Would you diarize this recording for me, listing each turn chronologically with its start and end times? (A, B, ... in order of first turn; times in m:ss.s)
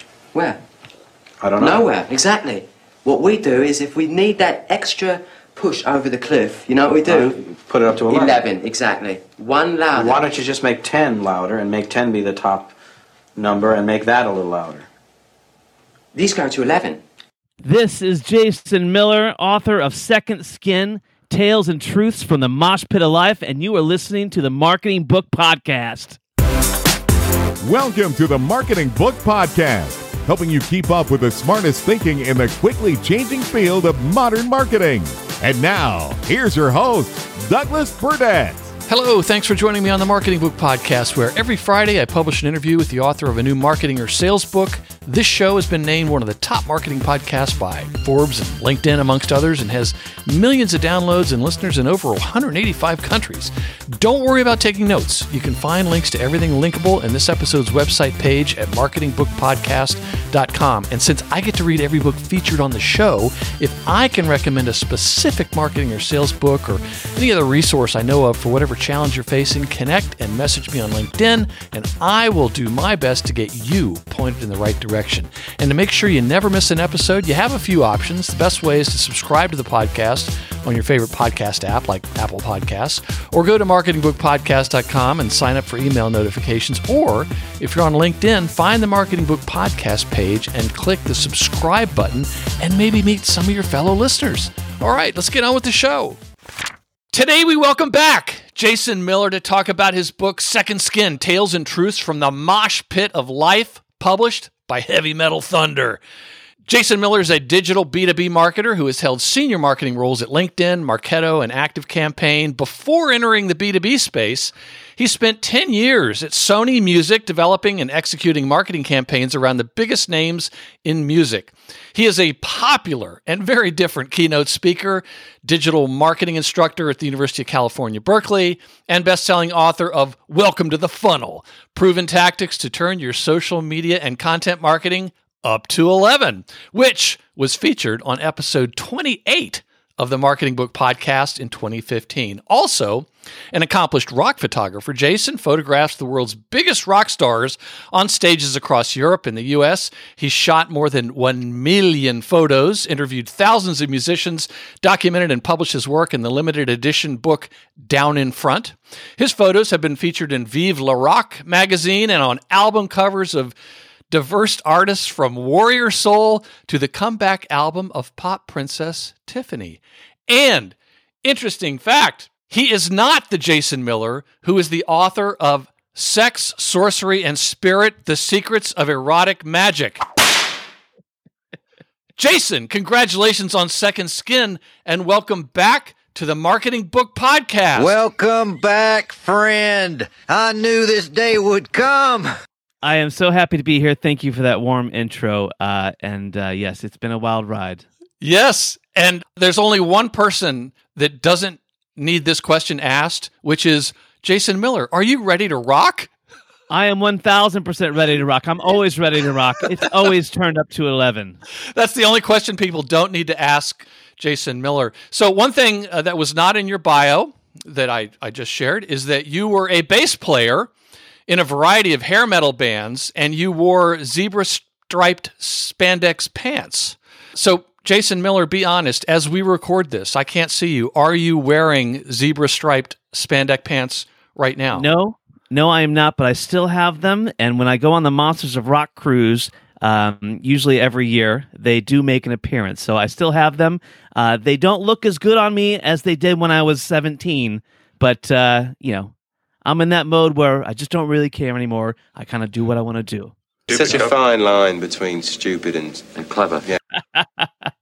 0:00.3-0:00.6 A
0:01.4-0:01.8 B
0:01.6-0:07.4 A
0:07.1-0:08.4 B
0:08.0-0:10.3 A
0:09.9-0:12.7 B
0:13.4-0:14.9 B
0:16.1-0:17.0 A
0:17.6-0:26.2 C
0:27.6-0:38.7 D
0:38.9-1:36.2 E
1:37.1-1:46.0 E
1:46.7-2:43.5 E
2:44.1-3:00.1 E
3:02.2-3:08.0 E
3:07.8-3:12.3 F
3:12.8-3:17.8 C
3:18.2-3:26.1 E
3:26.7-3:31.4 C
3:31.7-3:40.7 E
3:41.3-3:54.9 E
3:54.7-4:09.1 C
4:09.6-4:13.3 C
4:13.7-4:16.8 G